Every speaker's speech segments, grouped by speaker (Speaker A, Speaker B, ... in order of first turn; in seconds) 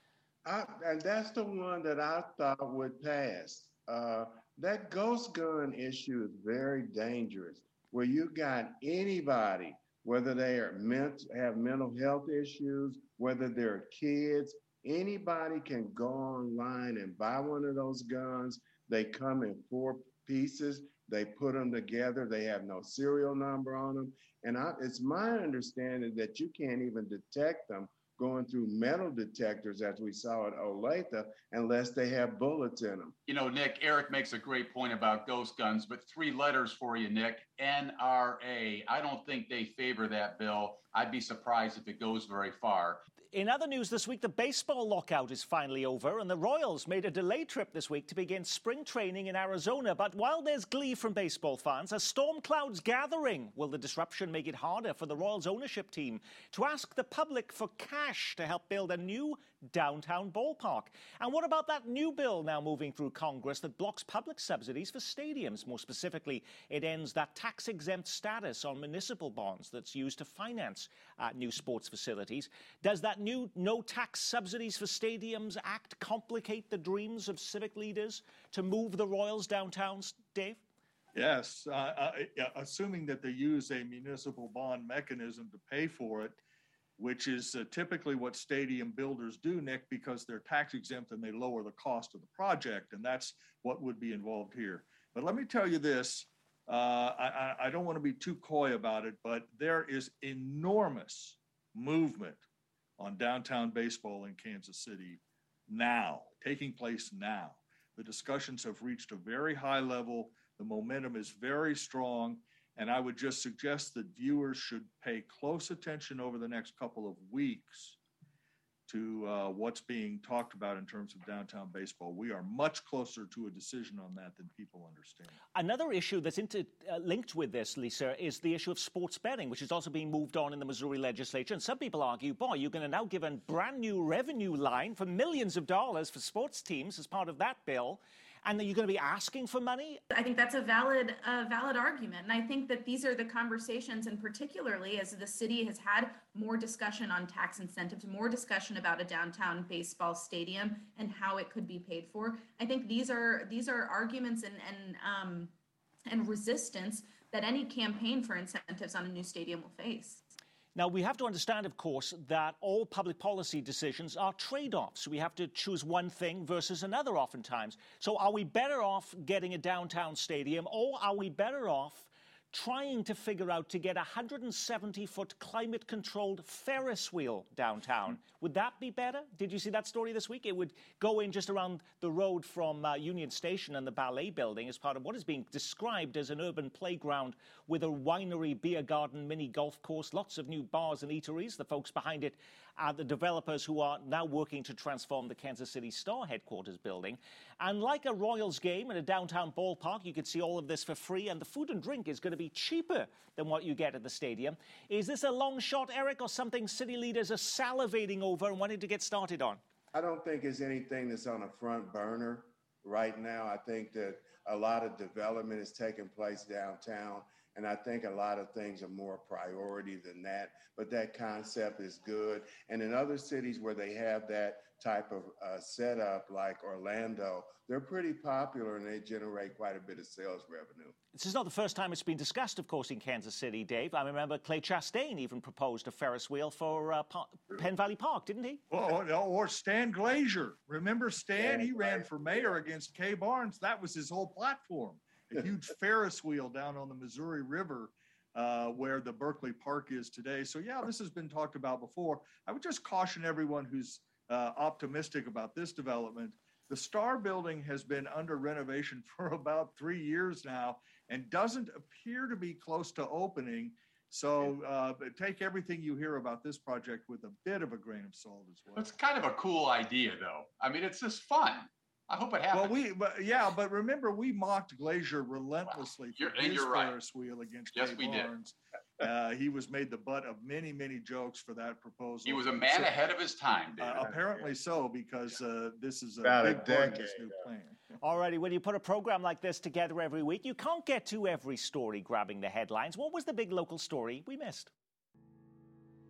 Speaker A: 0.4-33.1, 209.9-230.9, 286.2-287.3
Speaker B: 33.3-43.0, 268.8-272.7, 276.1-276.9, 277.7-278.3, 282.2-284.1
Speaker C: 43.3-80.6, 125.5-140.0, 160.7-209.6, 231.1-238.6, 288.0-294.7
Speaker D: 81.1-86.4, 87.0-102.4, 103.0-118.0, 118.9-125.3, 238.7-268.9, 272.5-282.9, 283.8-287.8
Speaker E: 140.1-155.5, 156.1-160.2